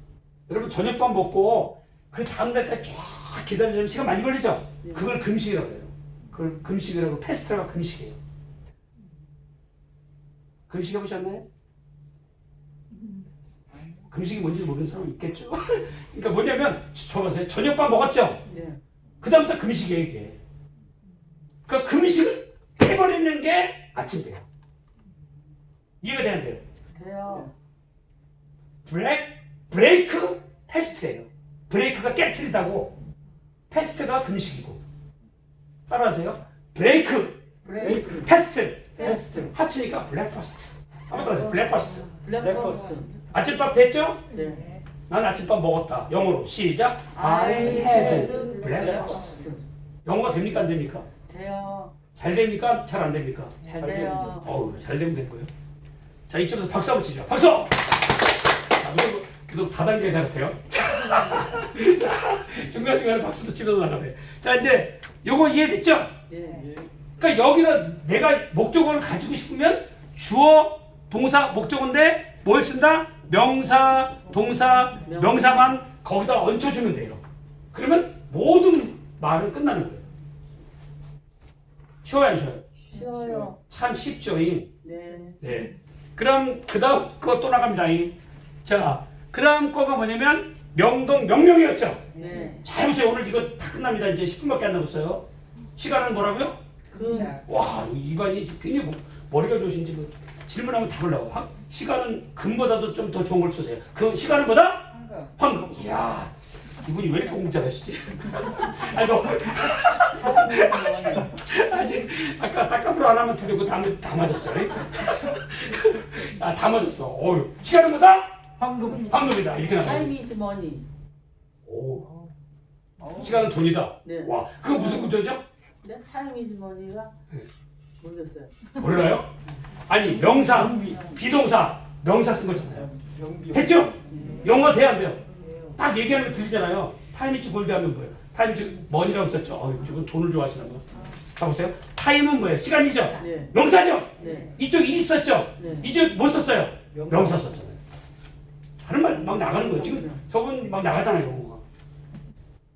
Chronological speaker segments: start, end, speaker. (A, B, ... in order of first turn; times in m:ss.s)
0:00.5-0:08.2 A
0:04.8-0:05.2 B
0:10.7-0:11.4 A
0:14.1-0:18.4 A
0:18.5-0:18.8 B
0:19.2-0:20.4 A
0:21.7-0:24.5 A
0:26.0-0:26.6 A
0:26.9-0:27.5 B
0:28.8-0:33.0 A
0:33.7-0:34.8 A
0:35.9-0:42.1 A
0:37.6-0:38.3 B
0:37.8-0:38.3 C
0:39.0-0:39.2 B
0:39.0-0:39.5 C
0:41.1-0:43.1 B
0:42.3-0:43.1 C
0:43.3-0:44.3 A
0:44.3-0:44.7 B
0:45.1-0:49.3 A
0:47.2-0:49.6 B
0:47.6-0:49.5 C
0:50.0-0:51.1 A
0:51.3-0:52.0 B
0:52.1-0:55.5 A
0:53.6-0:54.6 B
0:53.6-0:54.4 C
0:56.3-0:58.1 A
0:58.7-1:06.2 A
1:06.3-1:06.7 B
1:06.4-1:06.8 C
1:07.2-1:17.2 A
1:15.0-1:15.8 B
1:17.7-1:20.1 A
1:22.0-1:22.7 A
1:22.9-1:23.6 B
1:22.9-1:23.5 C
1:23.7-1:24.8 A
1:24.8-1:25.4 B
1:25.4-1:32.1 A
1:32.1-1:32.7 B
1:32.2-1:32.6 C
1:32.6-1:36.6 A
1:36.9-1:37.4 B
1:37.0-1:37.3 C
1:37.4-1:58.5 A
1:50.1-1:51.4 B
1:58.6-1:59.2 C
1:59.1-2:00.1 A
1:59.7-2:00.9 B
2:01.7-2:02.1 A
2:03.0-2:03.5 C
2:03.2-2:05.4 A
2:04.0-2:05.2 B
2:05.8-2:07.1 B
2:08.0-2:08.8 B
2:08.8-2:09.3 A
2:09.9-2:12.9 A
2:10.1-2:11.2 C
2:12.6-2:14.7 C
2:13.5-2:15.2 A
2:14.1-2:14.6 B
2:15.8-2:27.8 A
2:23.2-2:23.6 B
2:24.2-2:24.6 B
2:25.6-2:25.9 B
2:26.9-2:27.5 C
2:28.8-2:31.6 A
2:29.1-2:30.2 B